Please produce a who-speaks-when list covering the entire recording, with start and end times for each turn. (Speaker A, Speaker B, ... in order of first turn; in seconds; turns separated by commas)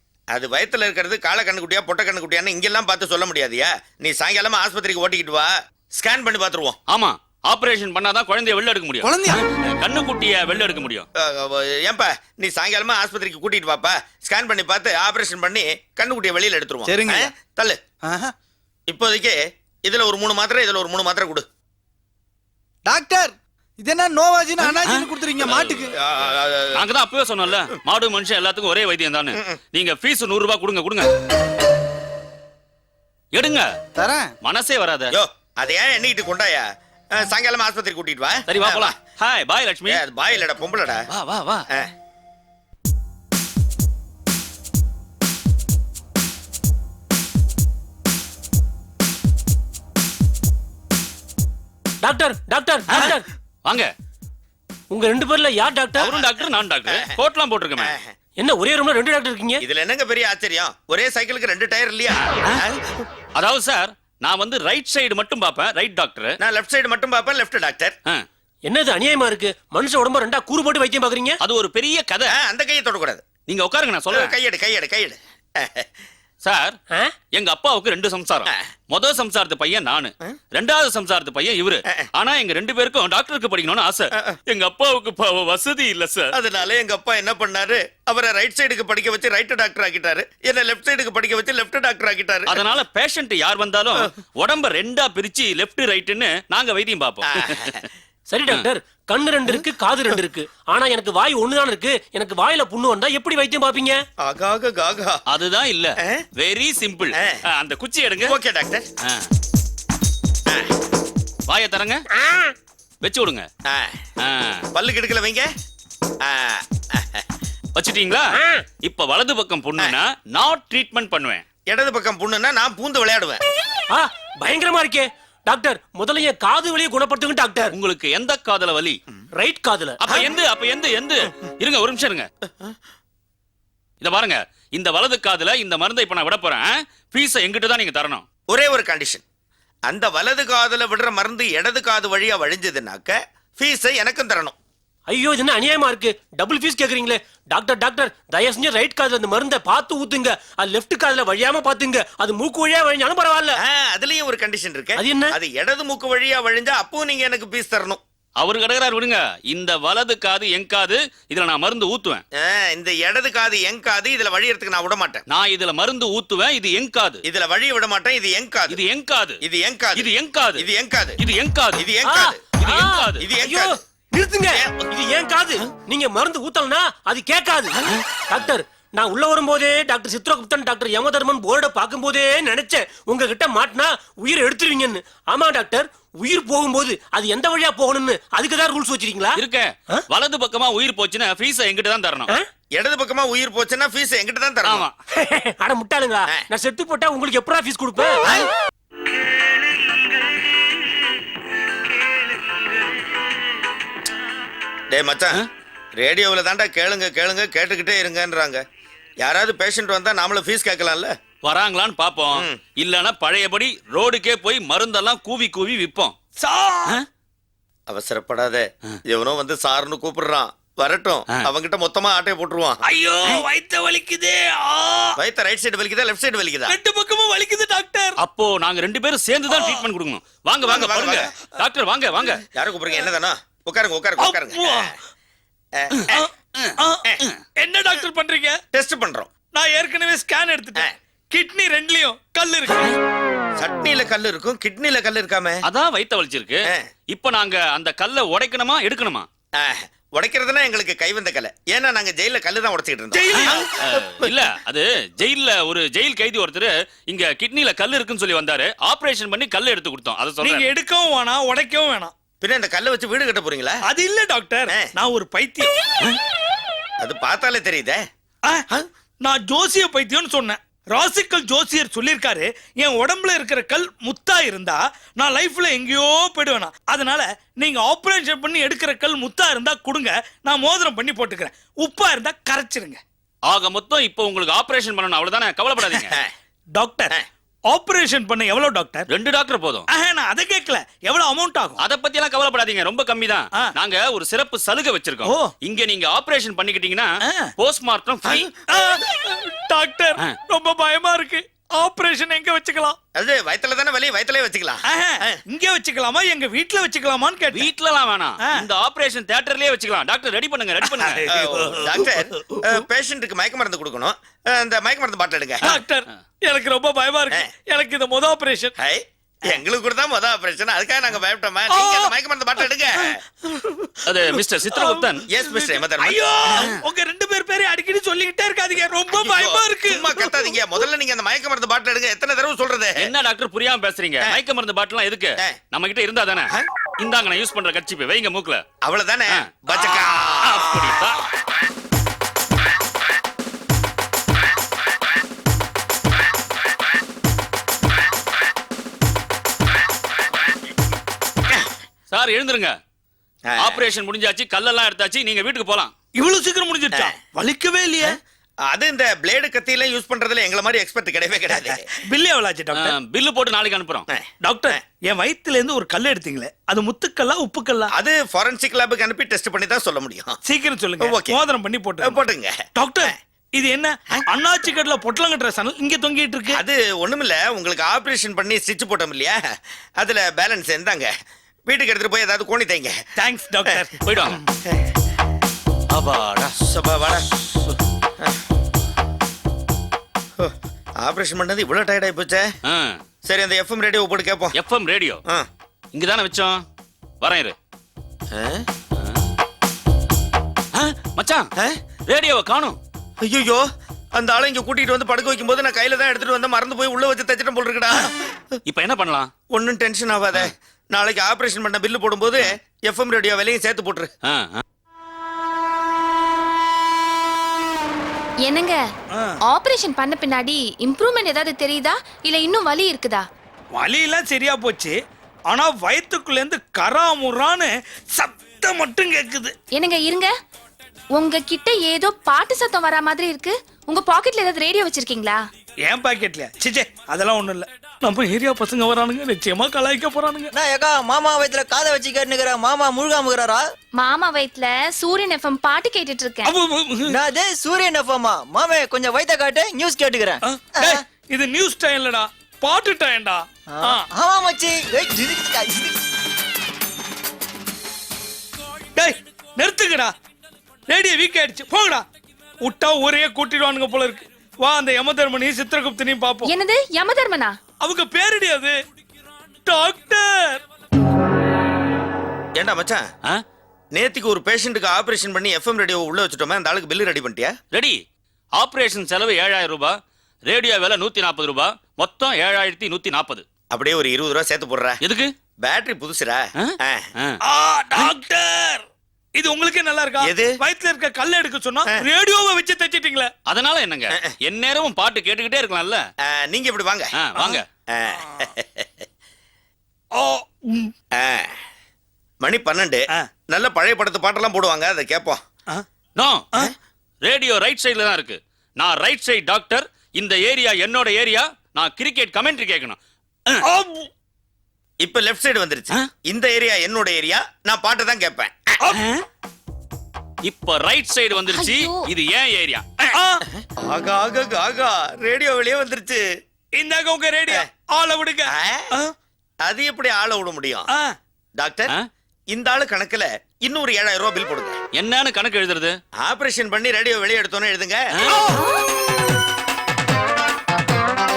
Speaker A: 0.3-6.8, Speaker B: 6.9-11.1, Speaker C: 9.0-9.4, Speaker A: 11.2-17.8, Speaker C: 16.8-17.3, Speaker C: 18.0-18.3, Speaker A: 18.9-21.4, Speaker C: 22.9-25.9, Speaker B: 24.6-25.9, Speaker A: 26.0-26.8, Speaker B: 26.8-31.1, Speaker B: 33.3-33.7, Speaker C: 34.0-34.3, Speaker B: 34.4-35.1, Speaker A: 35.1-38.9, Speaker B: 38.5-40.0, Speaker A: 39.9-41.1, Speaker B: 41.1-41.6, Speaker D: 52.0-53.2, Speaker B: 53.6-53.9, Speaker D: 54.9-56.1, Speaker B: 56.0-57.9, Speaker A: 56.0-57.2, Speaker A: 57.8-58.1, Speaker D: 58.4-59.6, Speaker A: 59.6-63.0, Speaker B: 63.3-66.3, Speaker A: 66.4-67.9, Speaker D: 68.7-71.4, Speaker B: 71.4-72.3, Speaker A: 72.3-73.2, Speaker B: 73.5-74.3, Speaker A: 74.1-75.9, Speaker B: 76.4-76.7, Speaker B: 77.3-86.3, Speaker A: 86.3-92.5, Speaker B: 92.5-97.8, Speaker A: 97.3-97.8, Speaker D: 98.3-104.0, Speaker A: 104.2-105.2, Speaker B: 105.3-108.3, Speaker A: 108.2-108.8, Speaker B: 111.5-112.0, Speaker B: 113.0-113.5, Speaker A: 113.7-114.0, Speaker B: 114.2-114.6, Speaker A: 114.7-115.5, Speaker A: 116.2-117.2, Speaker B: 117.7-118.3, Speaker D: 118.3-118.6, Speaker B: 118.8-121.4, Speaker A: 121.7-123.4, Speaker D: 123.9-127.7, Speaker B: 127.7-129.0, Speaker D: 129.3-130.0, Speaker B: 130.0-132.3, Speaker A: 130.1-130.3, Speaker B: 134.0-138.2, Speaker A: 138.5-139.2, Speaker A: 139.9-144.5, Speaker D: 145.1-153.6, Speaker A: 153.6-158.0, Speaker D: 155.0-155.3, Speaker B: 158.4-162.2, Speaker A: 162.4-165.2, Speaker B: 165.3-167.2, Speaker A: 167.2-168.8, Speaker B: 168.7-169.4, Speaker A: 169.4-171.2, Speaker B: 169.9-170.6, Speaker B: 171.2-171.8, Speaker A: 171.8-172.4, Speaker D: 172.0-190.0, Speaker B: 172.6-173.2, Speaker A: 173.2-173.8, Speaker B: 189.3-192.3, Speaker A: 192.7-194.8, Speaker B: 194.6-194.9, Speaker D: 195.1-198.4, Speaker A: 204.9-205.4, Speaker A: 206.0-208.6, Speaker A: 209.2-211.1, Speaker B: 211.4-216.1, Speaker A: 212.3-212.6, Speaker E: 216.4-216.9, Speaker A: 217.9-222.8, Speaker E: 222.8-225.2, Speaker A: 225.2-226.7, Speaker E: 226.7-228.1, Speaker B: 228.2-232.4, Speaker E: 229.5-229.8, Speaker A: 230.6-231.3, Speaker A: 232.5-234.9, Speaker E: 234.2-234.9, Speaker A: 235.8-236.2, Speaker B: 236.6-237.4, Speaker E: 237.6-238.6, Speaker A: 238.7-239.3, Speaker E: 239.5-242.9, Speaker A: 243.6-245.6, Speaker B: 245.6-249.3, Speaker A: 249.6-254.4, Speaker E: 253.1-253.7, Speaker B: 253.3-260.7, Speaker E: 260.4-262.1, Speaker A: 262.4-263.8, Speaker E: 263.9-265.7, Speaker A: 267.0-268.0, Speaker E: 269.2-283.0, Speaker B: 283.5-286.1, Speaker E: 286.7-287.1, Speaker E: 287.7-289.1, Speaker B: 289.1-289.9, Speaker E: 289.9-291.8, Speaker B: 291.8-298.5, Speaker E: 298.7-303.0, Speaker A: 303.1-305.4, Speaker E: 304.9-307.7, Speaker B: 307.5-311.3, Speaker E: 310.8-312.6, Speaker A: 311.3-315.7, Speaker E: 315.6-318.7, Speaker A: 318.8-323.2, Speaker E: 321.7-322.1, Speaker B: 324.1-325.2, Speaker E: 324.3-330.3, Speaker A: 325.3-326.8, Speaker A: 329.1-333.1, Speaker B: 333.0-338.6, Speaker A: 338.8-340.7, Speaker B: 339.3-341.2, Speaker B: 352.1-352.7, Speaker A: 353.4-353.8, Speaker B: 353.6-355.9, Speaker E: 356.1-358.1, Speaker A: 358.6-361.9, Speaker E: 361.5-362.9, Speaker B: 362.8-364.1, Speaker A: 364.1-364.8, Speaker E: 364.4-367.9, Speaker A: 367.9-370.4, Speaker E: 370.4-372.2, Speaker A: 371.0-371.4, Speaker A: 372.0-372.6, Speaker E: 372.8-376.6, Speaker A: 376.5-379.4, Speaker A: 380.0-381.1, Speaker A: 381.7-383.0, Speaker E: 383.2-384.4, Speaker B: 384.0-384.4, Speaker B: 385.9-386.6, Speaker A: 386.7-387.2, Speaker A: 390.4-392.5, Speaker B: 392.6-393.0, Speaker A: 393.2-394.6, Speaker B: 394.5-395.2, Speaker B: 395.9-396.6, Speaker B: 397.2-397.6, Speaker A: 398.3-398.6, Speaker B: 399.0-399.2, Speaker B: 400.7-401.5, Speaker B: 402.1-402.8, Speaker A: 403.2-408.6, Speaker B: 408.6-409.3, Speaker A: 409.5-414.1, Speaker B: 414.2-414.6, Speaker F: 418.4-418.8, Speaker F: 419.4-423.2, Speaker E: 423.7-425.0, Speaker E: 425.5-429.5, Speaker F: 429.7-430.3, Speaker F: 431.1-435.4, Speaker E: 435.8-440.5, Speaker G: 440.5-443.7, Speaker F: 443.9-446.5, Speaker E: 446.4-447.1, Speaker G: 447.1-451.0, Speaker E: 450.4-454.0, Speaker G: 453.7-456.0, Speaker E: 458.9-460.1, Speaker E: 460.9-462.0, Speaker E: 462.6-466.5, Speaker F: 466.4-467.6, Speaker E: 467.8-468.8, Speaker E: 469.6-470.6, Speaker A: 472.6-473.0, Speaker A: 473.9-477.5, Speaker B: 477.7-478.0, Speaker B: 478.6-479.9, Speaker B: 480.5-483.4, Speaker A: 483.7-485.0, Speaker B: 485.0-485.3, Speaker A: 485.6-487.0, Speaker B: 486.6-487.4, Speaker E: 487.4-488.8, Speaker E: 489.4-493.3, Speaker A: 490.2-490.5, Speaker B: 493.5-496.0, Speaker A: 496.2-497.1, Speaker B: 497.1-497.6, Speaker E: 497.4-497.6, Speaker A: 497.9-499.0, Speaker E: 500.1-500.9, Speaker A: 501.2-501.6, Speaker A: 502.4-505.4, Speaker B: 506.1-506.5, Speaker B: 507.2-513.0, Speaker E: 513.6-514.1, Speaker A: 515.0-518.7, Speaker B: 518.9-519.2, Speaker B: 520.4-523.1, Speaker F: 521.5-522.1, Speaker E: 523.1-523.4, Speaker A: 523.5-526.2, Speaker E: 526.7-529.1, Speaker A: 528.5-528.9, Speaker A: 529.6-530.9, Speaker A: 531.6-531.9, Speaker A: 532.5-534.8, Speaker B: 534.9-535.9, Speaker A: 536.2-538.5, Speaker B: 538.1-538.4